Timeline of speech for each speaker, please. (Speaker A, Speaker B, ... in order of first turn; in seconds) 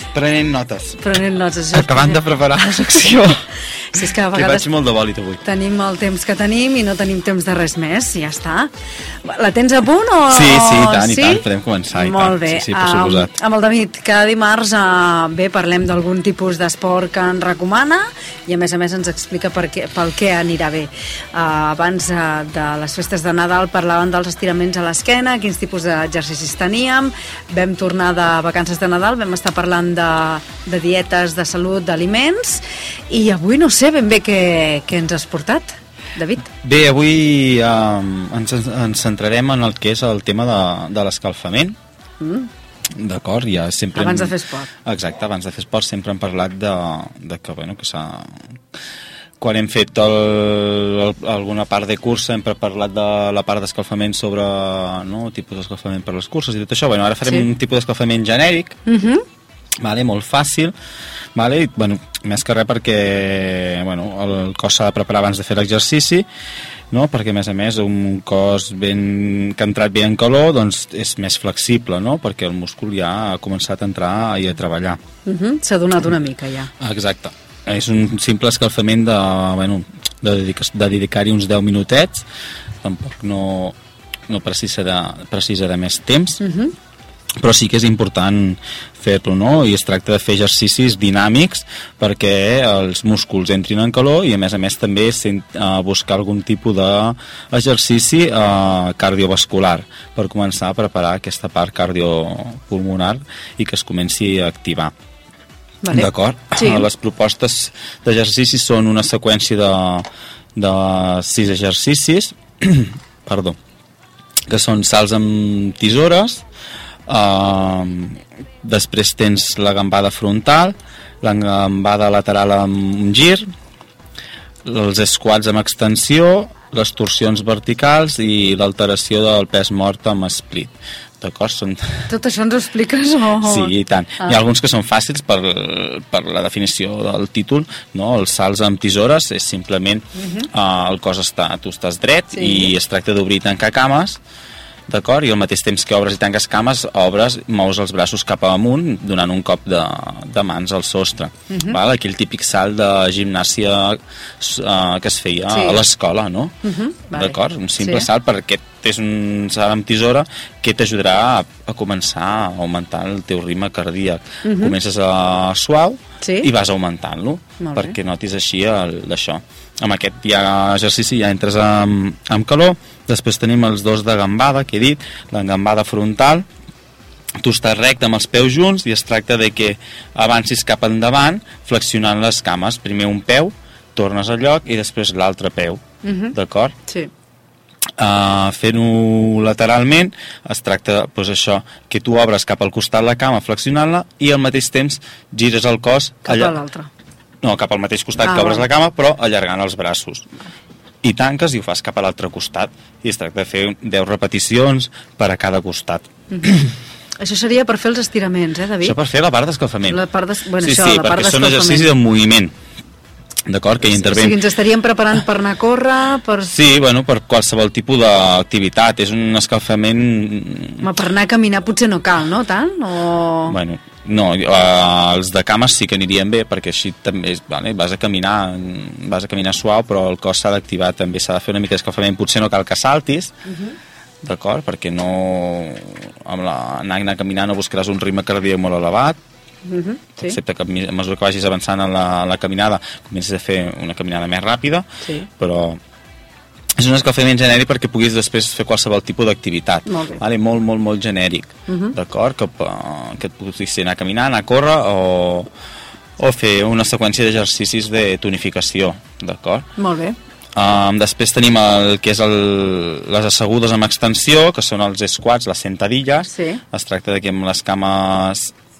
Speaker A: 0.1-1.1, 1.7-3.4, 4.3-5.4, 10.3-13.3, 36.5-41.8, 43.0-48.5, 49.4-58.8, 59.8-60.7, 61.3-66.3, 66.9-75.0, 76.8-82.2, 82.8-83.8, 84.3-86.4, 87.4-104.9, 105.9-113.6, 114.5-116.4, 117.1-123.5, 124.6-131.9, 133.4-144.2, 144.9-156.6, 157.1-176.4, 177.4-186.8, 188.0-196.6, 197.4-200.3, 201.0-206.7, 208.8-210.0, 210.6-212.5, 213.4-214.4, 216.4-220.9, 223.5-233.3, 234.2-239.2, 240.2-244.9, 245.4-245.8, 246.8-255.5, 256.2-259.7, 260.5-268.5
Speaker B: 1.0-3.2, 3.9-4.7, 5.4-8.7, 9.2-36.5, 42.2-42.5, 43.9-44.7, 58.9-59.2, 75.2-76.7, 86.4-86.7, 105.8-106.9, 132.1-134.4, 140.2-140.5, 142.3-142.7, 151.5-151.8, 155.5-155.8, 156.6-158.1, 164.4-164.7, 166.2-166.5, 167.6-167.9, 186.0-186.3, 196.2-196.9, 198.2-198.7, 207.2-208.9, 209.9-211.9, 213.8-216.5, 220.8-223.6, 233.5-233.8, 239.7-240.4, 245.0-245.3, 249.8-250.2, 251.7-251.9, 259.8-260.2, 266.3-266.6